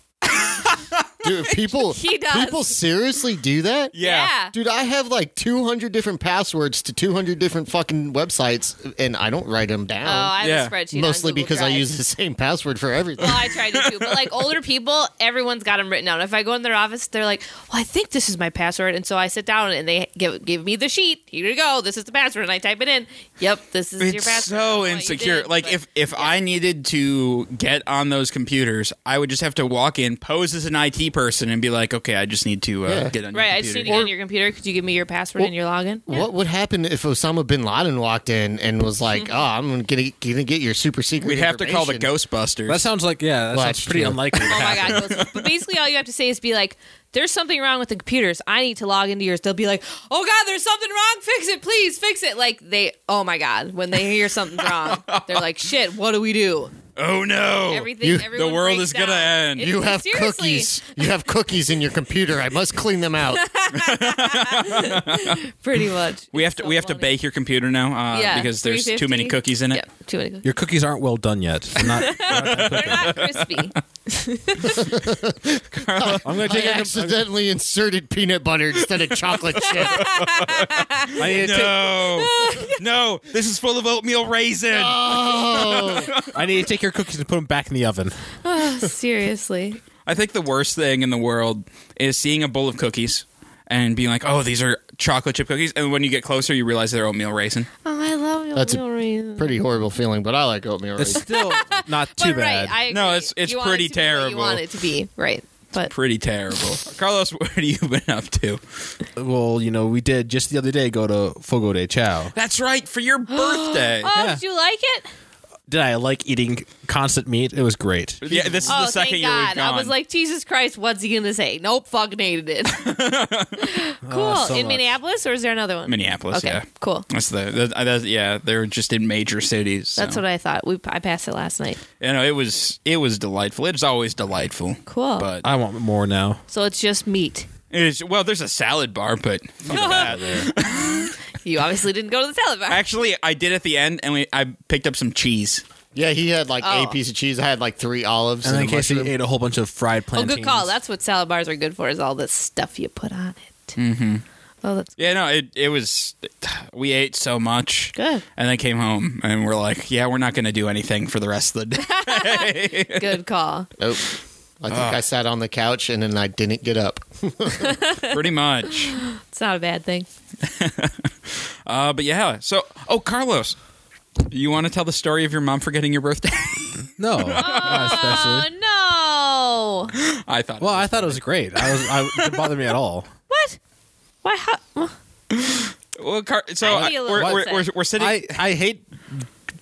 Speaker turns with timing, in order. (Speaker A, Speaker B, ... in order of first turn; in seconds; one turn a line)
Speaker A: 0.2-0.7
Speaker B: 0.5-1.0
Speaker C: 1.2-3.9
Speaker A: 1.5-2.8
Speaker B: 3.9-4.3
Speaker A: 4.0-4.5
Speaker C: 4.5-10.3
Speaker A: 10.0-11.9
Speaker B: 10.4-10.7
Speaker C: 10.9-13.5
Speaker A: 13.2-26.4
Speaker B: 13.5-14.5
Speaker B: 24.0-34.1
Speaker C: 32.9-33.1
Speaker A: 33.3-36.3
Speaker C: 33.9-34.1
Speaker C: 36.1-42.1
Speaker A: 39.1-39.4
Speaker B: 41.2-42.9
Speaker D: 42.7-45.1
Speaker C: 43.5-44.6
Speaker A: 44.4-56.7
Speaker B: 45.0-45.5
Speaker B: 54.6-55.5
Speaker B: 57.0-59.7
Speaker A: 57.7-61.1
Speaker C: 58.0-58.3
Speaker C: 59.6-63.5
Speaker A: 63.5-67.2
Speaker B: 63.7-65.4
Speaker B: 66.3-69.8
Speaker A: 68.1-70.5
Speaker D: 70.4-73.2
Speaker A: 71.8-74.9
Speaker B: 72.3-73.7
Speaker C: 74.7-80.1
Speaker B: 75.7-76.4
Speaker D: 76.2-77.2
Speaker B: 79.3-86.4
Speaker A: 79.9-81.2
Speaker D: 81.2-81.9
Speaker A: 82.1-82.8
Speaker C: 84.7-86.1
Speaker D: 86.3-88.2
Speaker A: 88.4-89.8
Speaker B: 90.1-97.7
Speaker A: 97.8-99.6
Speaker C: 98.5-98.8
Speaker C: 99.4-101.4
Speaker D: 101.0-102.8
Speaker A: 101.2-105.9
Speaker B: 102.9-104.6
Speaker B: 105.8-108.6
Speaker D: 109.2-112.3
Speaker B: 112.3-114.1
Speaker A: 113.3-115.1
Speaker D: 114.1-114.4
Speaker D: 115.7-118.7
Speaker B: 118.2-119.9
Speaker A: 118.7-123.0
Speaker B: 122.8-123.7
Speaker A: 123.6-127.1
Speaker D: 124.0-125.0
Speaker B: 125.9-130.2
Speaker A: 130.0-131.8
Speaker B: 132.0-135.5
Speaker A: 134.9-135.3
Speaker D: 135.4-136.4
Speaker A: 136.5-137.5
Speaker B: 137.7-141.1
Speaker D: 139.6-140.5
Speaker A: 139.7-142.8
Speaker B: 142.7-145.6
Speaker C: 145.9-149.1
Speaker A: 146.6-147.0
Speaker D: 148.4-150.7
Speaker A: 150.1-153.8
Speaker B: 153.8-154.2
Speaker A: 154.6-155.0
Speaker B: 155.0-163.2
Speaker A: 157.9-158.2
Speaker A: 161.8-163.7
Speaker C: 163.8-167.8
Speaker B: 164.7-165.0
Speaker A: 167.6-168.2
Speaker B: 168.1-169.0
Speaker A: 168.9-170.1
Speaker B: 170.4-171.1
Speaker B: 171.7-173.6
Speaker B: 174.3-178.1
Speaker D: 177.0-178.5
Speaker A: 177.4-179.9
Speaker B: 179.9-182.2
Speaker D: 180.6-183.1
Speaker A: 183.3-183.6
Speaker A: 184.2-184.9
Speaker B: 185.3-188.4
Speaker A: 186.6-187.7
Speaker D: 186.7-187.4
Speaker D: 188.0-189.3